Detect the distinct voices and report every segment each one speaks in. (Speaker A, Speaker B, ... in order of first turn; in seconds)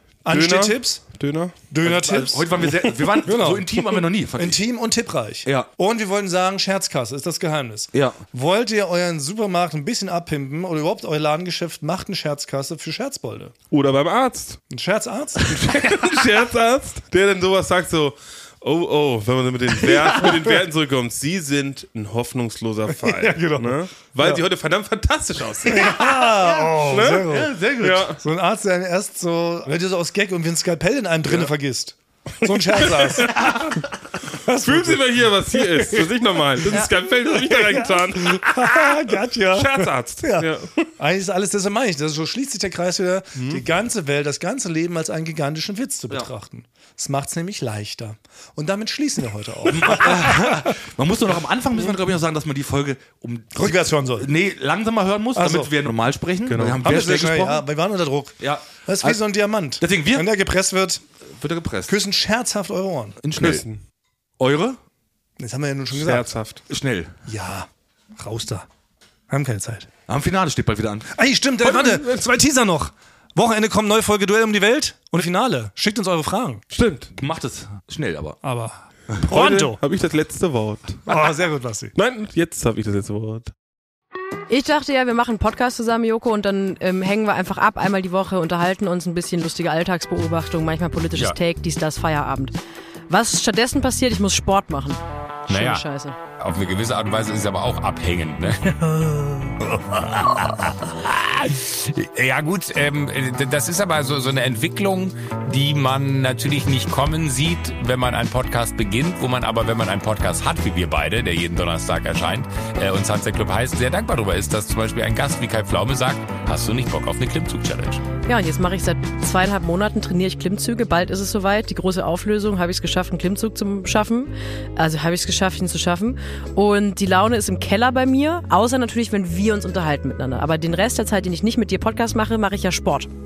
Speaker A: 0.2-1.0, 1.7-13.5, 14.7-15.6, 22.9-24.4, 25.7-50.7, 53.5-54.3, 55.4-55.7, 56.8-61.0, 61.9-63.2, 65.4-66.3, 67.3-68.7, 69.3-69.9, 71.1-76.6, 78.4-79.8, 81.1-81.9
Speaker B: 0.3-1.6, 13.7-14.6, 15.6-26.1, 26.8-28.2, 32.4-33.9, 34.5-40.9, 43.4-43.6, 56.5-56.8, 63.4-63.8, 65.9-66.6, 71.6-72.3, 76.7-77.1, 79.2-81.2, 82.0-83.5
Speaker C: 1.8-4.6, 7.9-8.2, 15.4-16.1, 19.8-20.4, 25.8-28.1, 49.7-57.6, 58.4-59.2, 59.8-60.3, 61.4-61.9, 63.2-63.6, 64.4-64.8, 66.7-67.1, 70.1-71.1, 77.2-78.4
Speaker D: 84.5-92.5, 93.1-96.2, 118.3-133.1
Speaker E: 95.5-95.9, 96.4-118.0